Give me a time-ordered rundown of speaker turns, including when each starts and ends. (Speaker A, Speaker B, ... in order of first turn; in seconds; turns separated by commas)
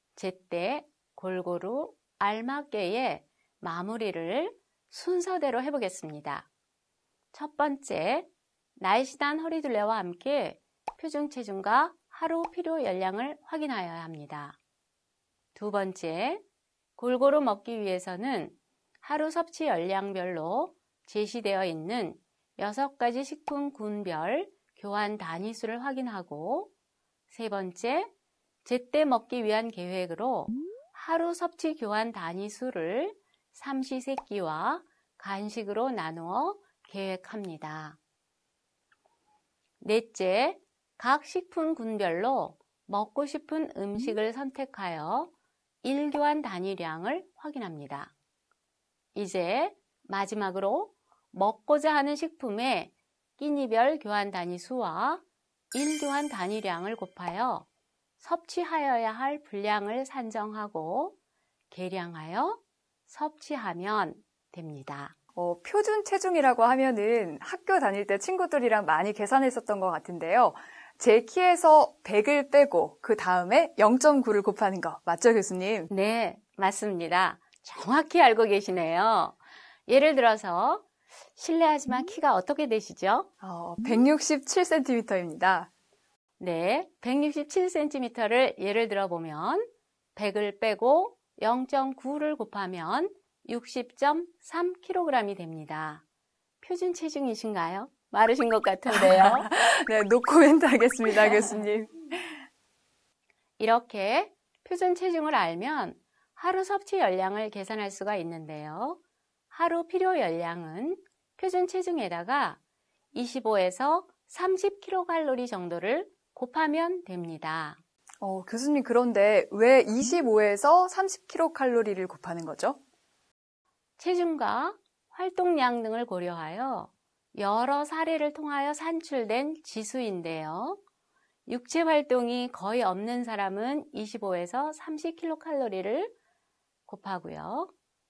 Speaker A: 0.1-6.5, Speaker A: 7.3-14.6, Speaker A: 15.6-16.4, Speaker A: 17.0-26.7, Speaker A: 27.3-28.1, Speaker A: 28.6-38.0, Speaker A: 39.8-45.3, Speaker A: 45.8-48.1, Speaker A: 49.1-57.7, Speaker A: 58.2-61.2, Speaker A: 61.7-65.2, Speaker B: 65.3-75.9, Speaker A: 75.9-83.3, Speaker B: 83.4-85.7, Speaker A: 86.4-96.0, Speaker A: 96.6-99.5, Speaker B: 98.9-102.3, Speaker A: 103.6-109.0, Speaker A: 109.5-112.6, Speaker A: 113.1-117.8, Speaker B: 118.2-122.8, Speaker A: 124.0-130.8, Speaker A: 131.5-136.1, Speaker A: 136.9-137.7